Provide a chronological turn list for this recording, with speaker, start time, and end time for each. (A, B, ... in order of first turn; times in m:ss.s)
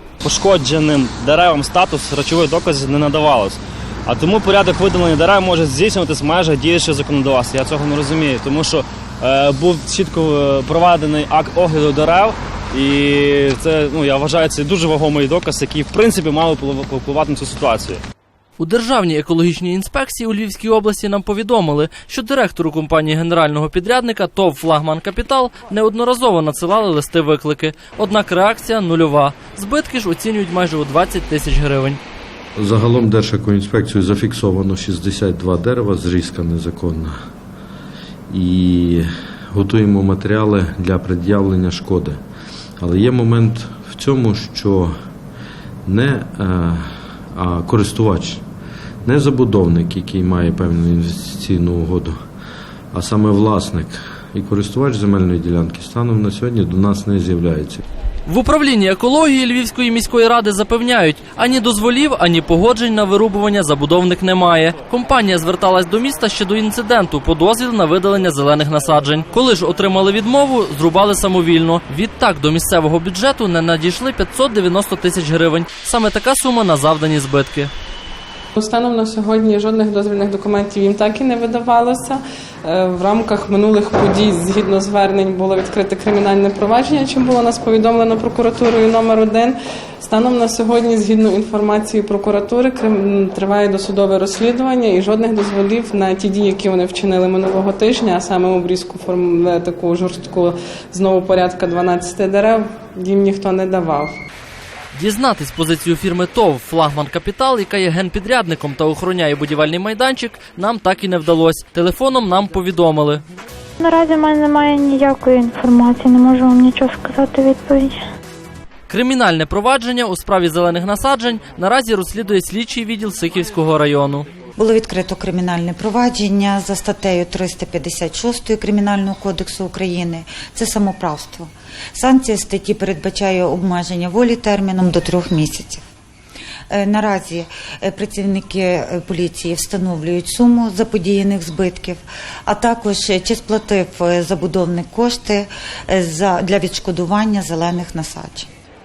0:00.2-0:18.0 A
0:18.6-0:32.0 B
0:32.6-0:37.1 C
0:38.3-0:42.2 C
0:42.8-0:44.9 C
0:45.9-0:46.8 C
0:47.3-0:48.4 C
0:49.0-0:52.2 C
0:52.9-0:57.8 C
0:58.3-1:17.7 B
1:18.6-1:44.2 D
1:44.9-1:53.2 B
1:53.8-1:58.0 E
1:58.9-2:04.3 B
2:04.6-2:15.8 F
2:16.7-2:28.5 F